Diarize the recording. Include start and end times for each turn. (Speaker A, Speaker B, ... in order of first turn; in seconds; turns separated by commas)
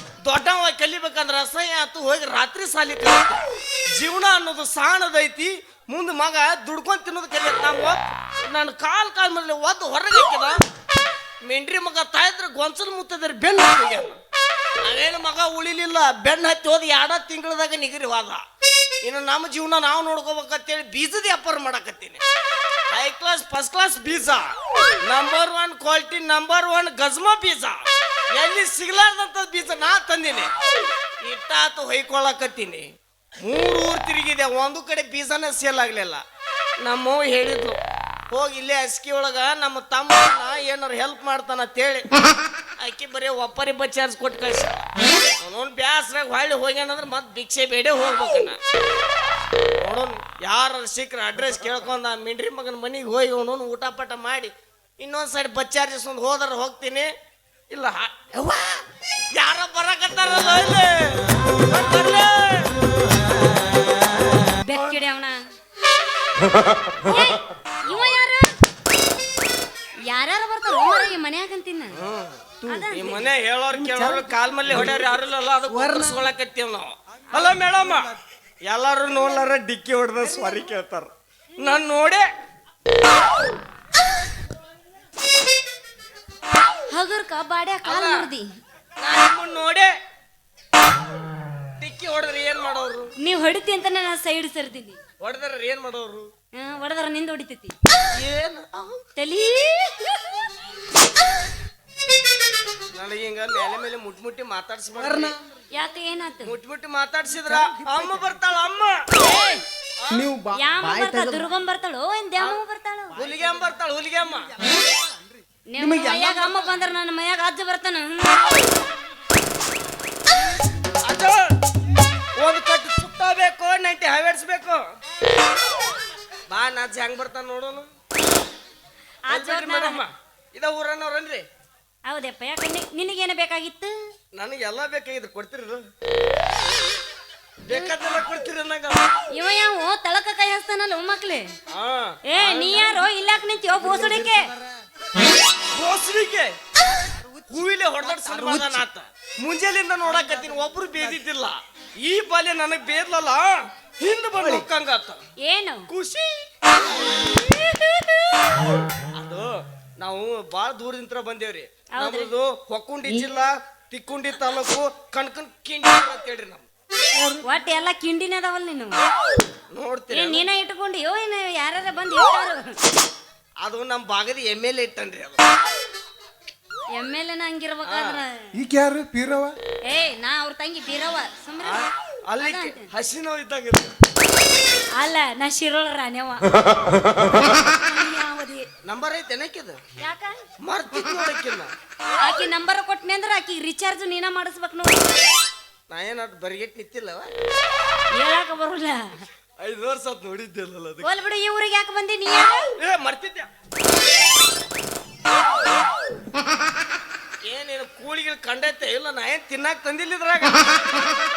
Speaker A: 0.2-3.4, Speaker A: 3.9-10.6, Speaker A: 11.4-14.2, Speaker A: 14.8-18.4, Speaker A: 19.0-22.2, Speaker A: 22.9-24.5, Speaker A: 25.0-27.8, Speaker A: 28.3-30.5, Speaker A: 31.2-32.9, Speaker A: 33.4-36.2, Speaker A: 36.8-37.8, Speaker A: 38.3-42.0, Speaker A: 42.8-44.9, Speaker A: 45.4-48.6, Speaker A: 49.8-57.1, Speaker A: 57.7-58.8, Speaker A: 59.3-62.7, Speaker B: 64.6-65.4, Speaker B: 67.0-68.5, Speaker B: 70.1-71.9, Speaker A: 71.9-72.4, Speaker C: 72.6-72.9, Speaker B: 72.7-73.2, Speaker A: 72.9-78.1, Speaker C: 73.7-75.0, Speaker C: 75.7-76.2, Speaker C: 77.3-78.2, Speaker A: 78.6-82.3, Speaker C: 80.2-80.7, Speaker B: 86.9-88.5, Speaker A: 87.8-88.3, Speaker A: 89.0-89.9, Speaker A: 91.8-93.1, Speaker B: 93.2-95.0, Speaker A: 95.2-96.3, Speaker B: 96.5-97.7, Speaker A: 98.1-99.0, Speaker B: 99.2-100.4, Speaker A: 102.9-105.3, Speaker C: 105.0-105.4, Speaker B: 105.7-106.5, Speaker A: 106.4-109.0, Speaker C: 107.3-108.3, Speaker B: 109.2-109.6, Speaker C: 110.1-111.4, Speaker B: 110.5-113.1, Speaker C: 113.1-116.8, Speaker A: 113.2-114.5, Speaker B: 115.7-118.7, Speaker A: 121.0-121.5, Speaker A: 122.4-124.8, Speaker A: 126.5-127.9, Speaker B: 129.3-130.0, Speaker A: 129.3-131.4, Speaker B: 132.1-133.9, Speaker A: 134.3-135.8, Speaker A: 137.7-139.1, Speaker B: 139.3-141.5, Speaker A: 141.7-143.0, Speaker B: 142.3-144.5, Speaker C: 142.4-142.8, Speaker C: 143.8-144.7, Speaker A: 145.7-146.5, Speaker C: 146.9-148.8, Speaker A: 147.5-155.2, Speaker C: 150.0-151.2, Speaker C: 154.3-154.7, Speaker B: 155.4-155.9, Speaker A: 155.9-156.3, Speaker A: 159.2-166.7, Speaker B: 161.9-162.3, Speaker B: 167.4-169.0, Speaker A: 169.7-170.5, Speaker B: 170.1-172.8, Speaker A: 173.6-175.4, Speaker B: 176.9-178.5, Speaker A: 177.8-178.2, Speaker C: 178.5-179.6, Speaker B: 179.9-181.8, Speaker A: 181.6-183.9, Speaker B: 182.4-182.9, Speaker B: 185.0-186.5, Speaker B: 187.6-188.6, Speaker A: 188.8-189.8, Speaker B: 190.0-190.4, Speaker A: 190.6-191.7, Speaker B: 192.2-195.2, Speaker A: 195.9-197.3, Speaker B: 198.1-199.2, Speaker A: 199.6-201.1, Speaker B: 201.0-202.7, Speaker A: 202.8-203.5, Speaker A: 207.4-210.8